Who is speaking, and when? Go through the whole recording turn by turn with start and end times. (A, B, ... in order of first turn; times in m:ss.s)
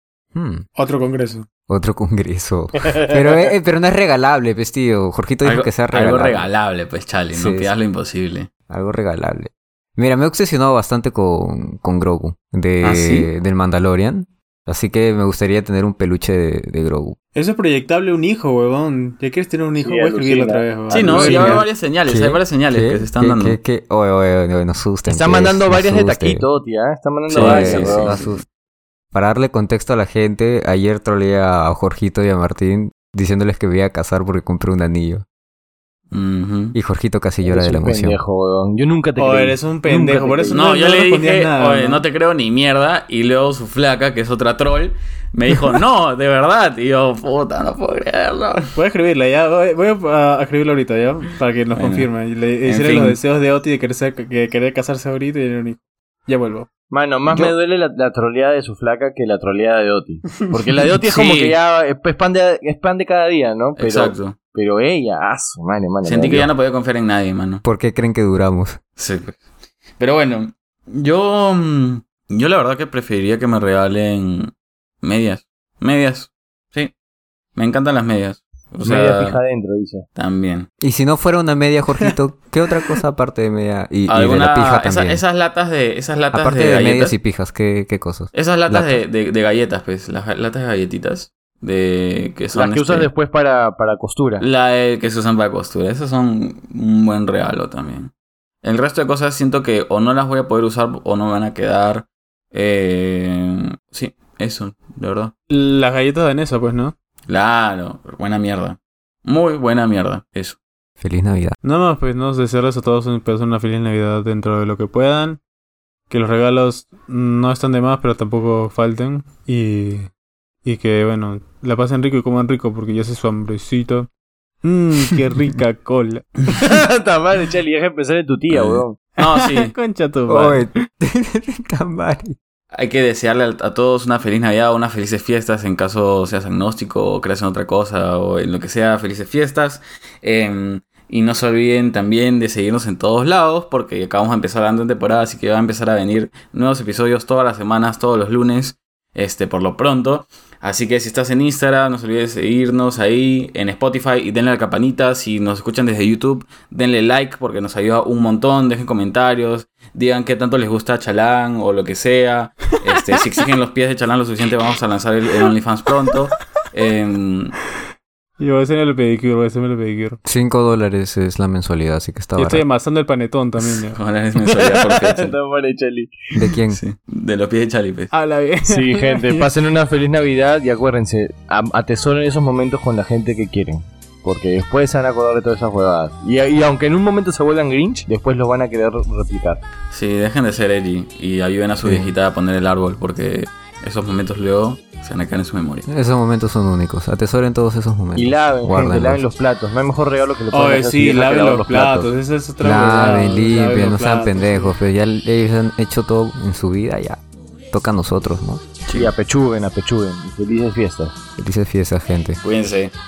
0:00.4-0:00.6 A
0:00.8-0:01.5 B
0:01.7-0:06.5 A
0:05.4-0:08.5 C
0:07.3-0:07.7 A
0:08.7-0:17.2 A
0:12.8-0:13.3 C
0:17.4-0:21.5 B
0:19.8-0:21.6 D
0:20.9-0:23.6 C
0:21.2-0:26.4 A
0:25.1-0:28.2 D
0:27.3-0:28.4 A
0:27.3-0:28.4 C
0:29.1-0:35.2 A
0:36.1-0:36.8 C
0:36.7-0:38.2 A
0:37.5-0:40.6 D
0:39.2-0:42.0 B
0:40.5-0:48.7 C
0:48.8-0:56.7 B
0:51.8-0:52.1 C
0:52.7-0:53.2 C
0:56.9-1:06.5 D
0:57.3-0:57.5 C
1:01.0-1:01.6 C
1:03.8-1:04.4 C
1:06.0-1:07.6 C
1:07.6-1:08.8 A
1:09.0-1:09.4 C
1:10.0-1:16.9 C
1:17.6-1:19.4 C
1:18.8-1:20.1 D
1:20.2-1:20.7 C
1:20.8-1:25.2 A
1:24.1-1:27.2 C
1:26.3-1:29.0 A
1:28.3-1:33.1 C
1:32.5-1:34.4 D
1:34.4-1:38.1 C
1:38.6-1:45.3 C
1:45.5-1:46.9 B
1:47.3-1:50.6 C
1:51.0-1:51.6 A
1:51.6-1:55.4 B
1:56.1-2:00.1 B
2:00.6-2:04.1 B
2:04.6-2:06.3 B
2:06.5-2:09.0 D
2:08.5-2:09.7 C
2:09.2-2:10.6 B
2:10.3-2:12.4 A
2:12.7-2:47.6 C
2:48.4-2:50.2 B
2:50.2-2:52.6 A
2:52.4-2:54.0 B
2:53.6-2:55.3 C
2:54.9-2:56.1 D
2:56.3-2:56.8 A
2:56.7-2:58.1 C
2:58.1-2:59.5 B
2:58.7-3:09.6 D
3:09.9-3:15.9 C
3:11.8-3:12.1 A
3:15.9-3:19.2 A
3:18.2-3:22.1 D
3:20.5-3:24.8 B
3:22.6-3:28.6 A
3:29.0-3:31.2 D
3:31.4-3:32.4 A
3:32.4-3:32.9 C